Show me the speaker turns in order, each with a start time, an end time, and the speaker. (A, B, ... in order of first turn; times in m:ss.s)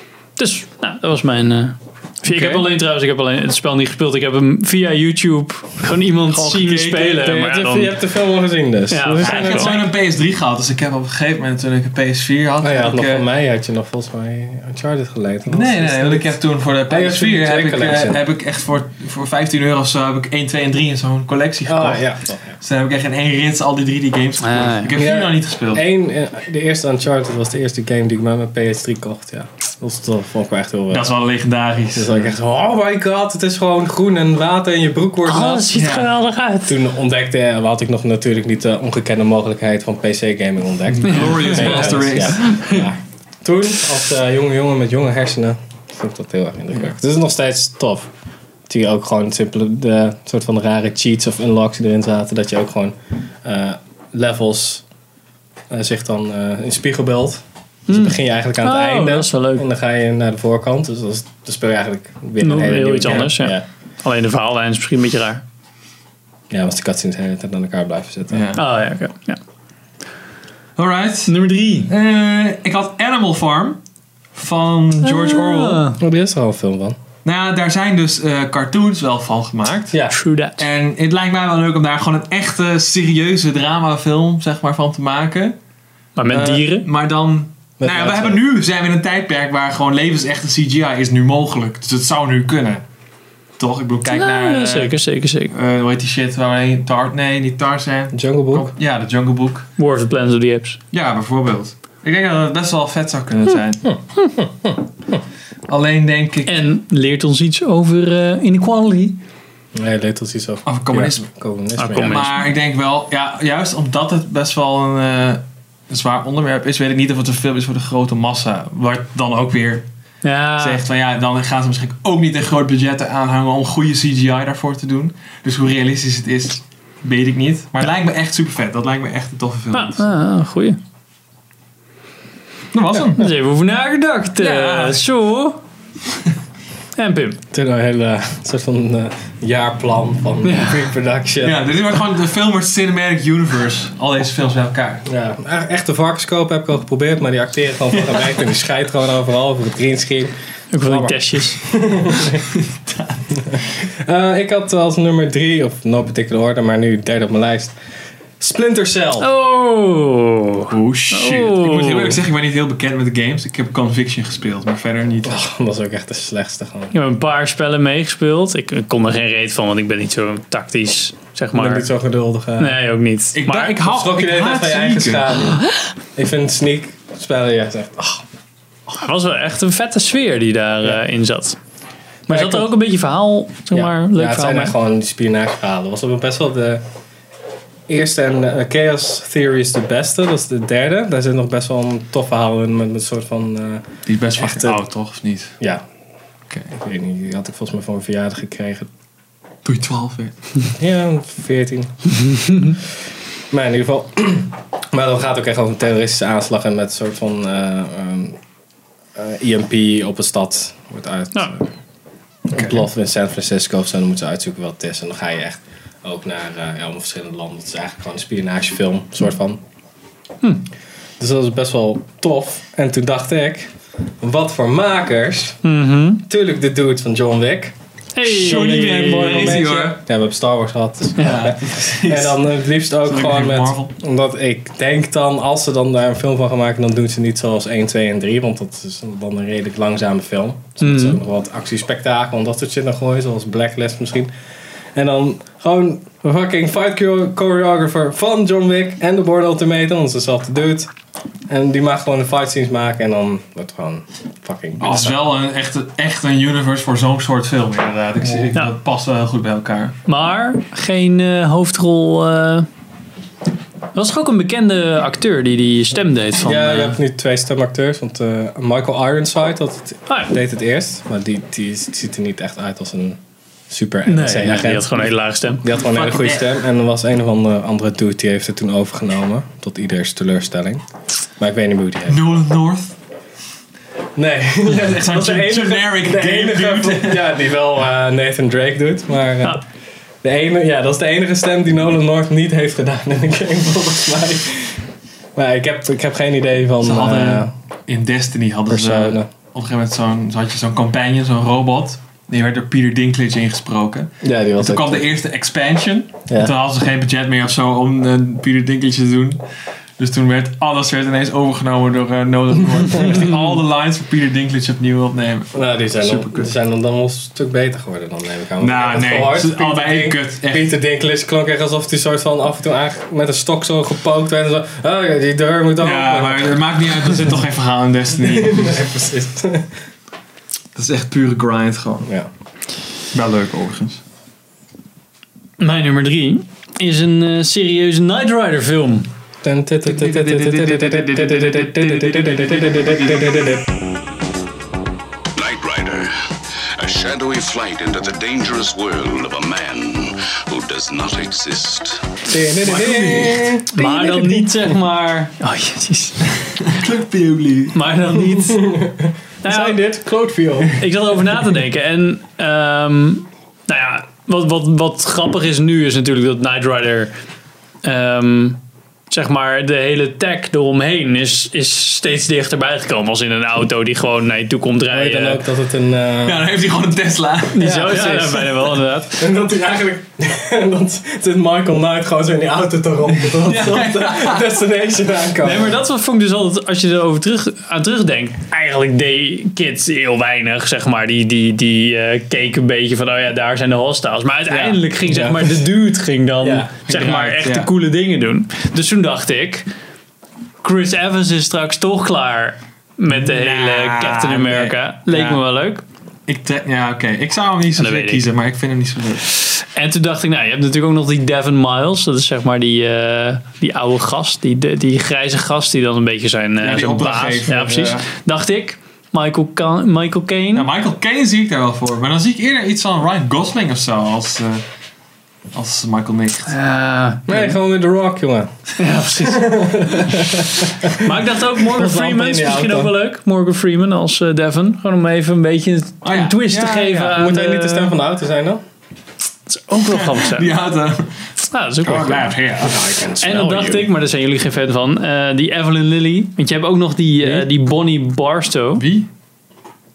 0:00.4-0:08.0 A
0:02.2-0:02.7 B
0:06.3-0:07.3 B
0:07.1-0:09.9 C
0:08.9-0:09.9 A
0:09.2-0:13.2 B
0:12.6-0:16.3 C
0:15.5-0:25.8 B
0:16.9-0:18.2 C
0:21.6-0:22.6 C
0:24.4-0:24.9 A
0:24.9-0:31.1 C
0:30.9-0:32.3 B
0:31.9-0:35.8 C
0:35.2-0:36.8 A
0:35.7-0:36.1 B
0:36.6-0:48.1 C
0:41.0-0:42.6 B
0:41.0-0:42.9 A
0:48.7-0:54.8 C
0:55.7-1:03.6 C
0:57.9-0:59.6 A
1:02.4-1:05.4 A
1:03.0-1:03.3 B
1:06.5-1:08.6 C
1:08.3-1:08.6 B
1:08.6-1:09.4 A
1:10.8-1:11.3 B
1:11.3-1:11.9 A
1:11.9-1:13.8 B
1:14.3-1:15.8 B
1:15.0-1:16.0 A
1:16.0-1:17.0 C
1:17.2-1:20.0 B
1:20.1-1:20.6 A
1:20.6-1:25.6 B
1:26.2-1:26.9 A
1:26.3-1:32.8 B
1:27.8-1:28.4 C
1:33.6-1:34.9 B
1:34.1-1:35.5 A
1:35.5-1:39.7 B
1:38.1-1:38.7 C
1:39.8-1:40.8 A
1:40.9-1:43.9 B
1:43.8-1:45.2 C
1:45.7-1:46.6 B
1:46.4-1:49.2 A
1:49.7-1:52.2 C
1:50.6-1:51.3 B
1:51.8-1:52.4 A
1:52.0-1:59.8 B
2:00.2-2:00.8 A
2:00.6-2:10.1 B
2:09.7-2:10.8 A
2:12.7-2:13.3 B
2:13.2-2:15.6 A
2:14.4-2:15.0 B
2:17.0-2:17.4 A
2:17.5-2:21.6 C
2:20.4-2:20.9 A
2:21.4-2:25.0 B
2:25.0-2:32.4 C
2:27.9-2:28.3 B
2:30.7-2:31.6 A
2:32.5-2:33.2 B
2:33.4-2:37.7 C
2:38.4-2:39.3 C
2:39.2-2:42.2 A
2:40.7-2:45.4 B
2:45.2-2:46.9 C
2:46.9-2:51.9 A
2:51.5-2:52.8 C
2:52.6-2:53.8 A
2:53.3-2:55.4 B
2:53.8-2:55.6 C
2:56.2-2:58.2 C
2:58.9-3:01.6 A
3:02.3-3:04.7 A
3:02.3-3:02.7 C
3:03.7-3:06.8 C
3:07.9-3:14.8 C
3:14.0-3:15.5 B
3:16.7-3:18.9 C
3:19.6-3:20.3 B
3:20.8-3:22.1 C
3:22.3-3:22.7 A
3:23.5-3:28.4 C
3:29.1-3:31.7 C
3:32.5-3:39.6 C
3:41.2-3:45.6 C
3:45.6-3:46.2 A
3:46.3-3:47.7 C
3:48.1-3:49.6 A
3:48.2-3:50.0 B
3:48.3-4:04.3 C
3:51.2-3:52.5 B
3:53.0-3:53.9 B
4:00.8-4:01.2 A
4:04.9-4:10.9 C
4:11.5-4:15.2 C
4:14.8-4:20.0 B
4:20.1-4:22.7 A
4:23.9-4:27.0 A
4:26.4-4:35.0 C
4:30.1-4:30.3 A
4:34.0-4:35.7 A
4:35.6-4:40.8 C
4:35.8-4:36.4 B
4:41.4-4:42.2 C
4:42.1-4:43.0 B
4:44.2-4:49.6 C
4:44.7-4:47.3 B
4:50.2-4:54.8 C
4:55.4-4:57.5 C
4:56.8-5:09.4 B
4:58.7-4:59.3 C
5:04.2-5:05.0 C
5:10.0-5:16.5 B
5:15.5-5:27.3 C
5:18.6-5:20.7 B
5:25.8-5:28.8 B
5:28.2-5:29.7 C
5:30.7-5:32.1 B
5:33.1-5:34.0 B
5:35.6-5:39.1 A
5:39.4-5:43.6 C
5:39.8-5:43.4 B
5:45.4-5:46.1 D
5:46.8-5:52.1 D
5:52.3-5:54.7 C
5:52.6-5:53.5 B
5:53.7-5:56.5 A
5:56.6-5:57.8 B
5:57.7-5:58.7 A
5:58.2-6:00.8 C
5:59.4-5:59.8 A
6:00.7-6:07.1 A
6:07.8-6:15.4 A
6:14.9-6:16.4 C
6:16.2-6:18.0 B
6:17.5-6:19.2 A
6:17.6-6:25.8 C
6:23.3-6:24.4 B
6:25.4-6:39.7 A
6:34.5-6:34.8 B
6:35.1-6:35.6 C
6:36.4-6:36.7 C
6:36.8-6:37.7 B
6:40.6-6:45.8 A
6:43.1-6:45.4 B
6:46.3-6:49.3 B
6:47.8-6:48.2 A
6:49.4-7:00.7 A
6:56.6-6:58.1 B
7:00.5-7:04.6 B
7:05.5-7:06.5 B
7:06.5-7:07.5 A
7:07.3-7:12.9 C
7:08.8-7:10.4 A
7:10.9-7:17.9 A
7:16.0-7:17.2 B
7:17.1-7:18.6 C
7:19.5-7:20.5 A
7:19.9-7:21.3 B
7:21.4-7:22.3 A
7:21.8-7:22.9 B
7:22.6-7:23.9 C
7:23.2-7:28.8 A
7:28.7-7:29.1 B